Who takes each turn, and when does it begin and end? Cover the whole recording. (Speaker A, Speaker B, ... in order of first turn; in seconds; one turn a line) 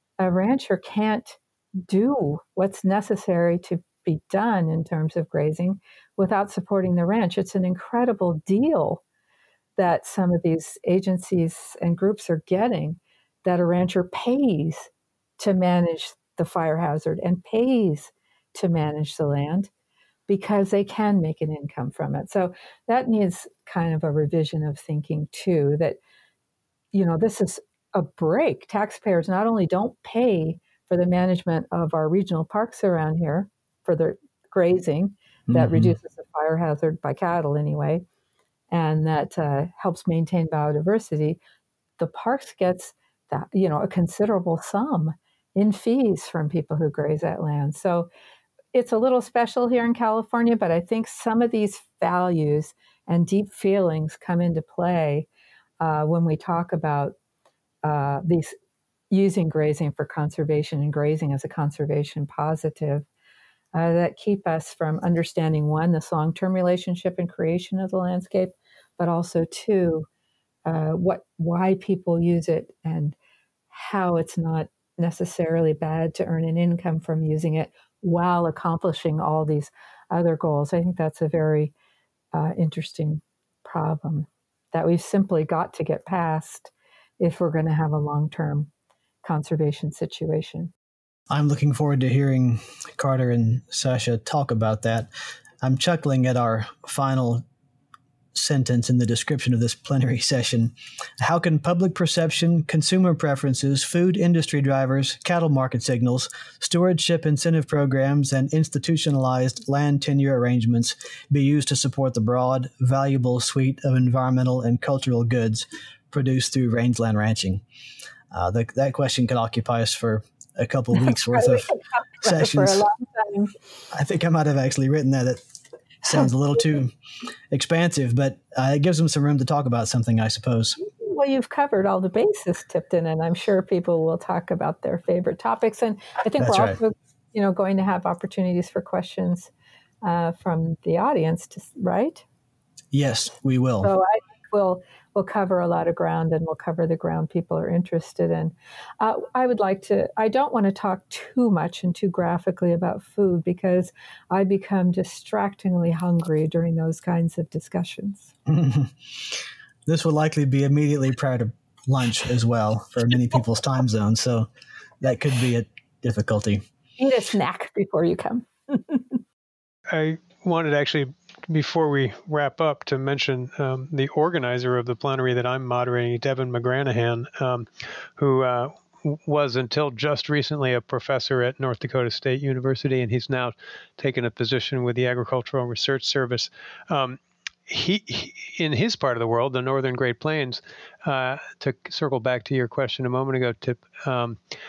Speaker A: 0.2-9.0
Speaker A: 9.8-19.7
Speaker A: 20.3-26.0
Speaker A: 26.9-38.0
Speaker B: 35.5-36.0
Speaker A: 38.7-41.4
Speaker A: 42.0-48.1
Speaker A: 48.7-55.3
Speaker A: 55.8-57.1
Speaker A: 57.8-58.5
Speaker A: 59.1-63.1
Speaker A: 63.7-70.1
Speaker A: 70.7-73.2
Speaker A: 73.7-81.7
Speaker A: 82.3-88.7
Speaker A: 89.2-90.7
Speaker B: 91.3-95.1
Speaker B: 95.6-97.4
Speaker B: 98.3-117.6
Speaker B: 118.3-122.8
Speaker A: 121.0-123.5
Speaker B: 123.9-125.4
Speaker B: 126.0-126.9
Speaker B: 127.5-130.8
Speaker A: 130.8-139.5
Speaker B: 136.4-136.8
Speaker A: 140.0-142.2
Speaker B: 142.9-143.9
Speaker A: 143.8-158.3
Speaker B: 158.5-164.5
Speaker B: 165.0-166.6
Speaker A: 167.0-169.2
Speaker C: 169.9-194.4